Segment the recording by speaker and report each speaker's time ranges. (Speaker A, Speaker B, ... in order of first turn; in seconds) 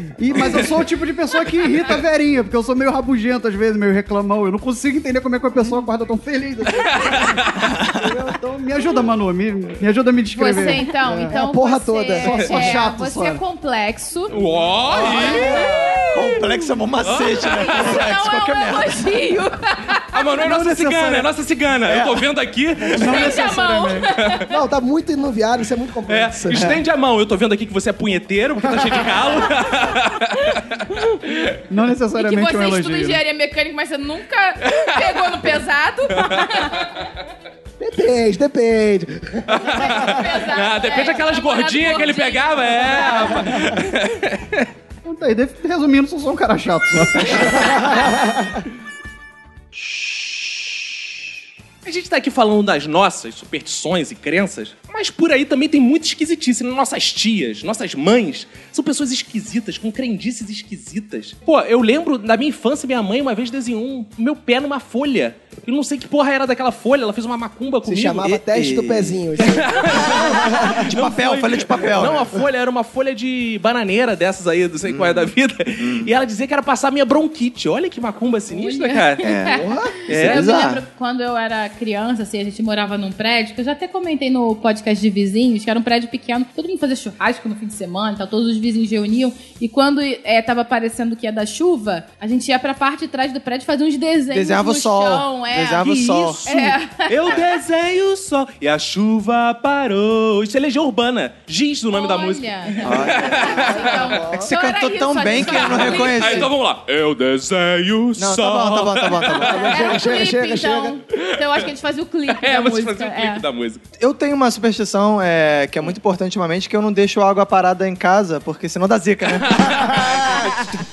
Speaker A: 0.2-11.4, 12.2-13.4, 20.4-21.3, 22.8-24.1, 31.7-33.2, 45.0-47.9
Speaker B: 0.3-0.7, 6.9-7.6, 14.3-15.9, 17.0-17.9, 20.1-23.4, 24.2-24.5, 26.1-30.6, 31.2-31.6, 34.7-35.1, 39.5-44.7, 51.8-68.3, 69.4-79.4, 80.1-80.5, 96.7-104.2, 105.3-109.8, 111.1-111.7, 112.3-113.8, 119.3-120.6
Speaker C: 10.3-14.5, 15.2-16.2, 17.5-20.2, 23.0-24.5, 32.2-36.9, 39.6-43.5, 78.5-97.4, 101.9-106.5, 109.4-113.4
Speaker D: 11.1-12.7, 24.5-26.8, 37.8-40.1, 67.8-70.9, 79.5-79.7, 102.8-104.5, 109.4-111.0
Speaker E: 14.9-19.1, 21.8-22.2, 68.2-69.3, 70.8-72.4, 74.9-76.1, 79.2-80.8, 94.3-96.7, 102.8-103.6, 104.4-106.5, 108.2-109.9, 114.0-120.7